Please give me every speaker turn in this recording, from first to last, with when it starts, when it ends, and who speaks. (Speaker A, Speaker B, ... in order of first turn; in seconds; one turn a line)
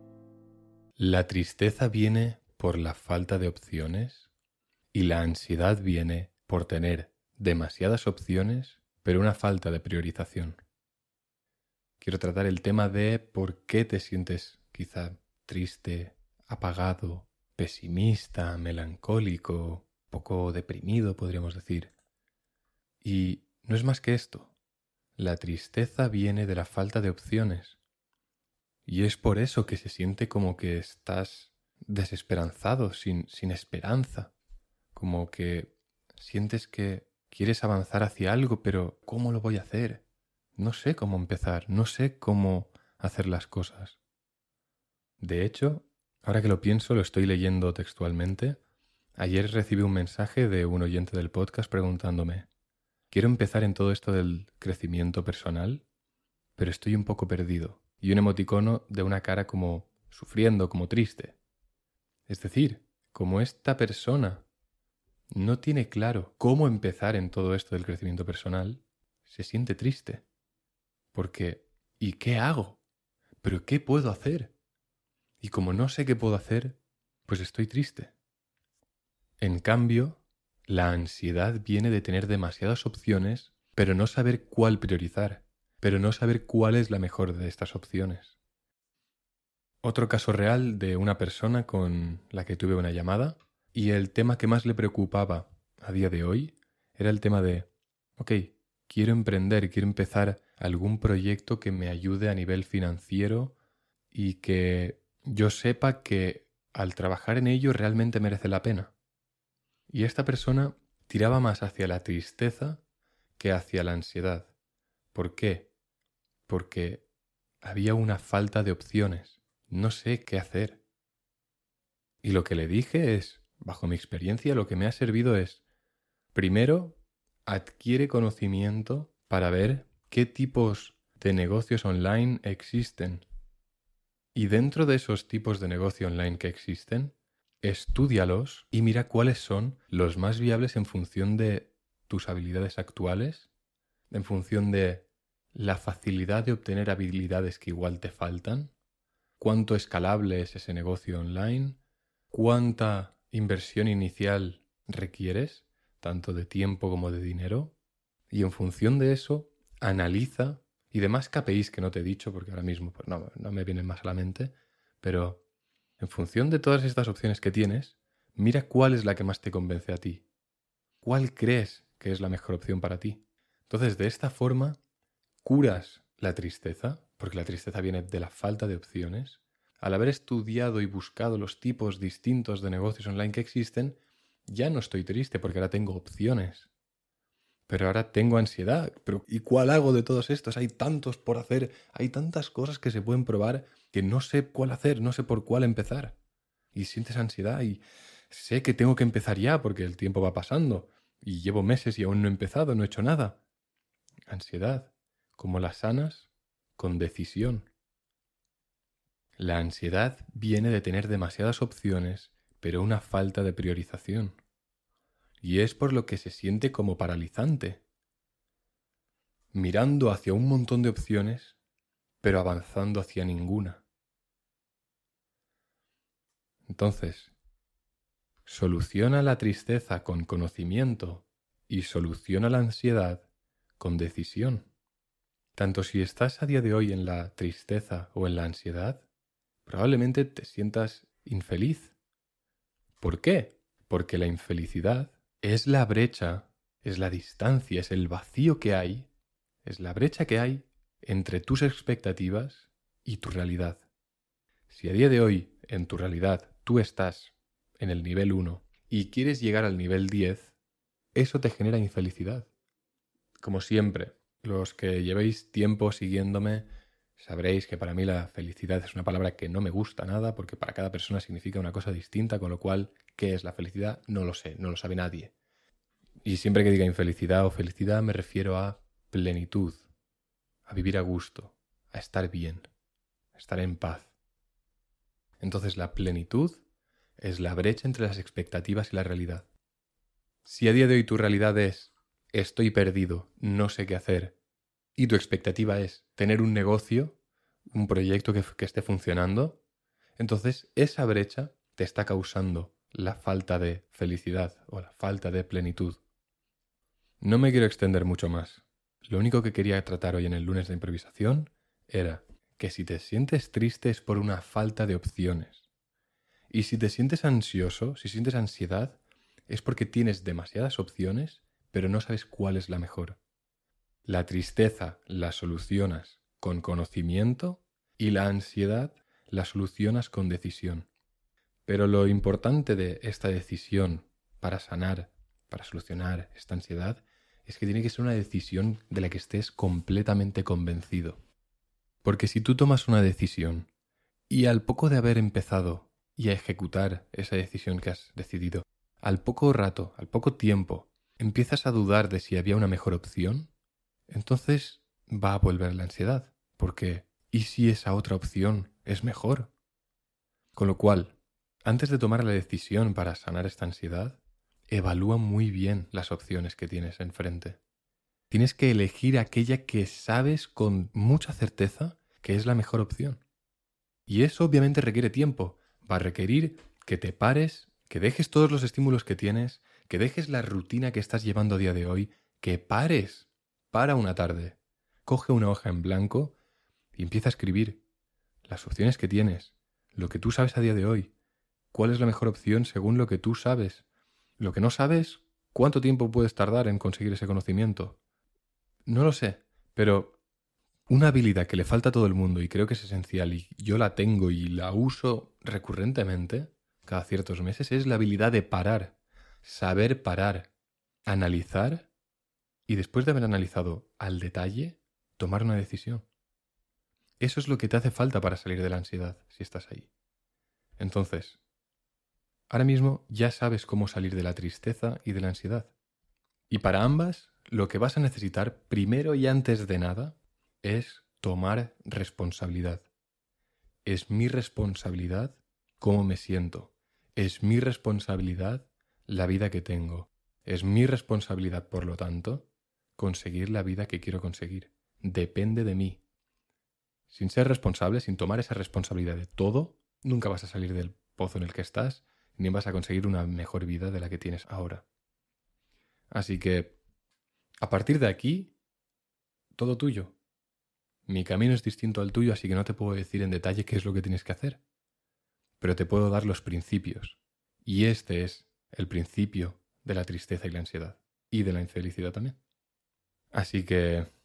Speaker A: 1.0-4.3
Speaker A: 4.9-10.6
Speaker A: 12.0-21.9
Speaker A: 23.0-24.5
Speaker A: 25.2-27.8
Speaker A: 28.9-34.3
Speaker A: 34.9-40.0
Speaker A: 40.6-44.0
Speaker A: 45.2-48.6
Speaker A: 49.2-52.5
Speaker A: 53.1-55.8
Speaker A: 56.6-61.4
Speaker A: 62.3-64.4
Speaker A: 65.3-70.2
Speaker A: 71.1-72.8
Speaker A: 73.4-74.5
Speaker A: 75.4-78.1
Speaker A: 79.4-88.4
Speaker A: 89.8-103.5
Speaker A: 104.1-108.9
Speaker A: 109.9-112.8
Speaker A: 113.4-114.5
Speaker A: 115.1-115.7
Speaker A: 116.5-117.0
Speaker A: 117.6-120.8
Speaker A: 122.2-125.6
Speaker A: 126.3-133.2
Speaker A: 134.3-143.5
Speaker A: 144.1-148.7
Speaker A: 149.4-151.8
Speaker A: 152.3-157.7
Speaker A: 158.3-165.4
Speaker A: 166.0-170.2
Speaker A: 171.0-174.8
Speaker A: 175.4-186.7
Speaker A: 187.7-196.2
Speaker A: 196.7-203.4
Speaker A: 204.3-207.7
Speaker A: 209.4-214.4
Speaker A: 215.4-217.8
Speaker A: 219.5-221.6
Speaker A: 222.2-223.8
Speaker A: 226.7-227.3
Speaker A: 228.4-233.3
Speaker A: 233.8-234.7
Speaker A: 235.5-239.0
Speaker A: 239.6-241.9
Speaker A: 243.0-249.1
Speaker A: 249.6-253.8
Speaker A: 254.7-260.5
Speaker A: 261.1-262.5
Speaker A: 263.4-266.6
Speaker A: 267.2-275.3
Speaker A: 276.2-279.8
Speaker A: 280.6-282.7
Speaker A: 283.3-284.1
Speaker A: 285.4-286.6
Speaker A: 287.2-289.5
Speaker A: 290.4-294.4
Speaker A: 294.9-297.2
Speaker A: 297.7-299.6
Speaker A: 300.2-306.0
Speaker A: 307.2-315.6
Speaker A: 316.5-323.2
Speaker A: 324.0-330.9
Speaker A: 331.6-341.2
Speaker A: 342.0-343.7
Speaker A: 344.3-353.5
Speaker A: 354.1-359.5
Speaker A: 360.6-367.6
Speaker A: 368.3-373.2
Speaker A: 374.1-386.3
Speaker A: 386.9-387.8
Speaker A: 388.4-391.1
Speaker A: 391.7-393.8
Speaker A: 394.4-398.0
Speaker A: 398.9-400.2
Speaker A: 400.9-410.5
Speaker A: 411.1-411.9
Speaker A: 412.7-416.1
Speaker A: 417.2-419.9
Speaker A: 420.8-421.4
Speaker A: 422.5-425.7
Speaker A: 426.5-432.9
Speaker A: 433.9-446.0
Speaker A: 447.1-454.8
Speaker A: 456.1-456.8
Speaker A: 457.6-458.5
Speaker A: 459.5-460.1
Speaker A: 461.1-464.6
Speaker A: 465.6-472.4
Speaker A: 473.3-474.1